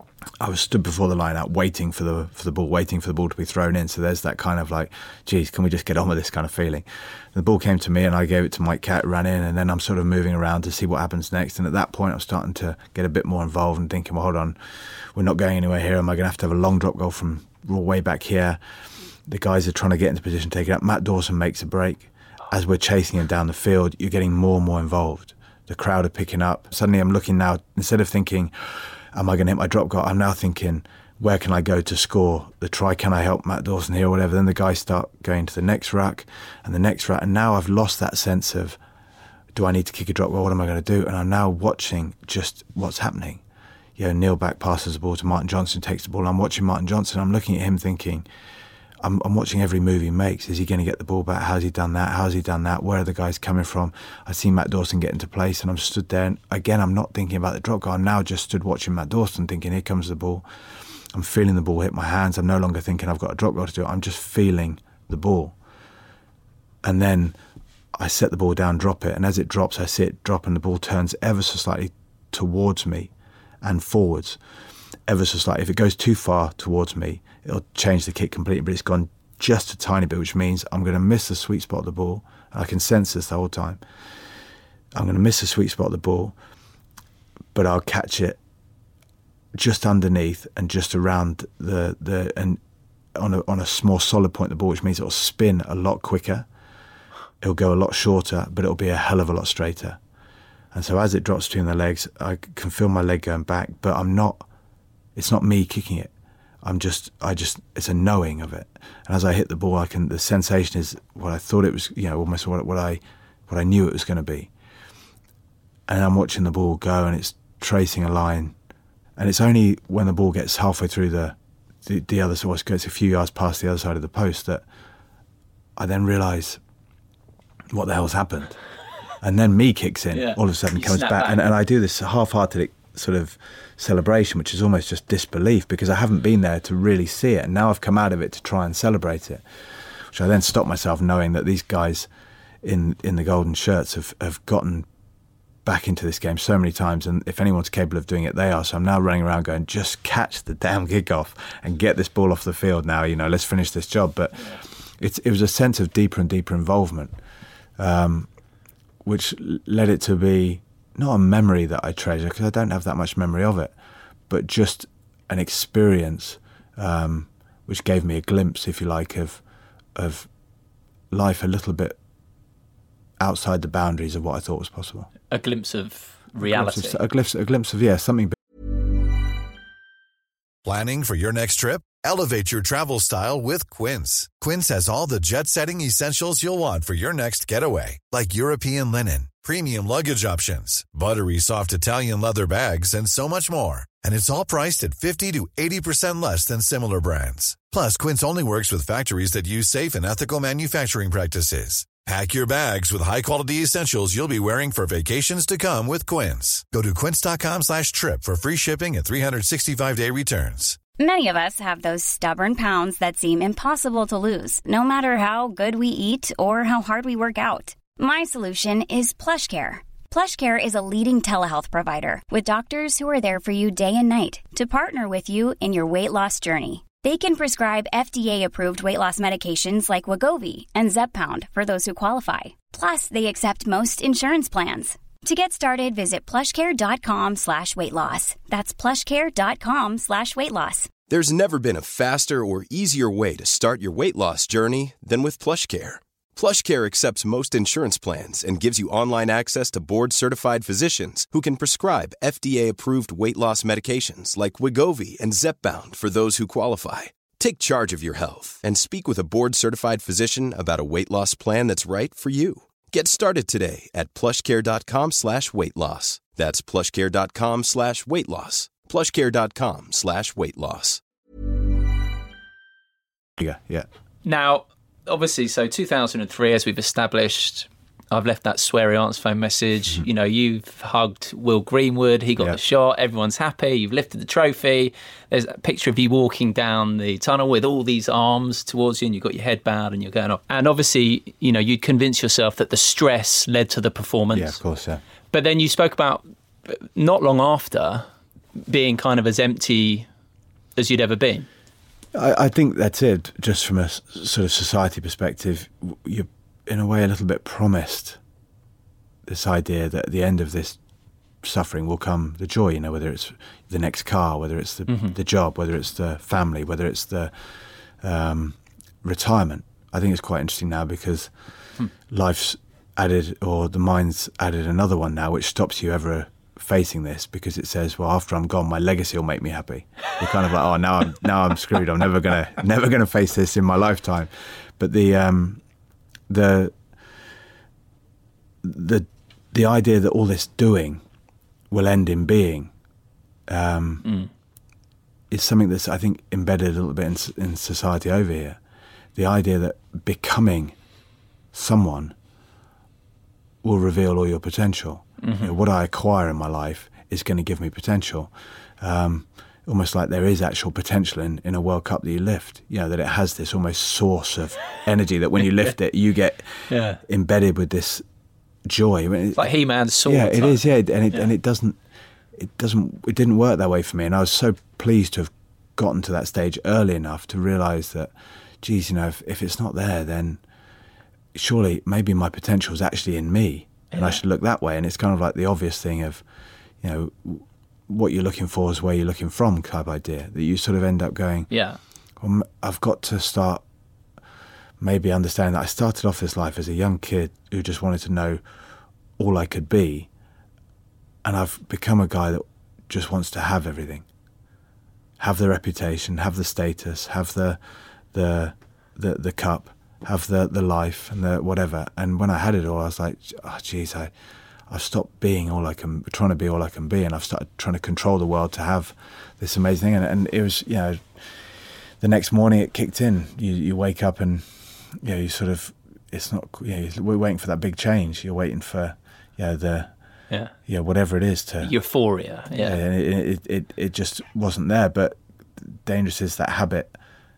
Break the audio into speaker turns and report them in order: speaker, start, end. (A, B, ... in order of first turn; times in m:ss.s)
0:00.4-0:18.6 A
0:19.3-0:38.8 A
0:39.5-0:43.4 A
0:44.0-0:48.2 A
0:49.0-1:00.4 A
1:01.1-1:05.5 A
1:06.8-1:07.4 A
1:07.9-1:13.1 A
1:13.6-1:14.4 A
1:15.1-1:23.8 A
1:24.9-1:26.4 A
1:27.5-1:28.4 A
1:29.5-1:32.6 A
1:33.2-1:36.5 A
1:37.4-1:40.0 A
1:40.7-1:44.4 A
1:45.1-1:46.1 A
1:46.6-1:54.5 A
1:55.9-1:58.5 A
1:59.2-2:04.6 A
2:05.8-2:06.6 A
2:07.7-2:08.6 A
2:09.2-2:19.4 A
2:10.1-2:11.4 B
2:20.1-2:22.1 A
2:22.6-2:24.9 A
2:25.6-2:37.2 A
2:37.8-2:38.3 A
2:39.0-2:43.7 A
2:44.3-2:49.4 A
2:49.9-2:50.3 A
2:51.1-2:52.0 A
2:53.2-2:55.1 A
2:55.3-2:57.0 B
2:56.4-2:58.4 A
3:00.6-3:30.8 C
3:31.0-4:00.9 D
4:01.1-4:31.0 E
4:33.4-4:33.9 A
4:34.2-4:54.6 B
4:54.3-4:55.0 A
4:55.3-4:58.1 B
4:58.7-5:00.1 B
5:00.8-5:01.5 B
5:02.1-5:08.2 A
5:09.2-5:10.8 A
5:11.4-5:21.3 A
5:14.9-5:15.2 B
5:22.1-5:35.6 A
5:36.3-5:36.8 A
5:38.6-5:41.0 A
5:41.7-5:42.7 A
5:43.5-5:44.1 A
5:44.0-5:44.3 B
5:45.3-5:48.6 A
5:49.2-5:50.7 A
5:51.5-5:52.1 A
5:53.6-6:08.0 A
5:55.2-5:55.5 B
6:06.7-6:07.0 B
6:08.6-6:09.5 A
6:09.4-6:11.3 B
6:10.0-6:11.8 A
6:12.3-6:18.1 A
6:18.6-6:20.4 A
6:21.3-6:26.2 A
6:23.9-6:24.2 B
6:26.8-6:31.5 A
6:31.5-6:31.8 B
6:32.2-6:33.6 A
6:34.8-6:38.4 A
6:39.2-6:40.1 A
6:41.2-6:44.0 A
6:45.2-6:47.6 A
6:48.1-6:54.1 A
6:54.7-7:01.4 A
7:02.0-7:09.9 A
7:10.6-7:11.7 A
7:11.6-7:12.8 B
7:12.5-7:17.0 A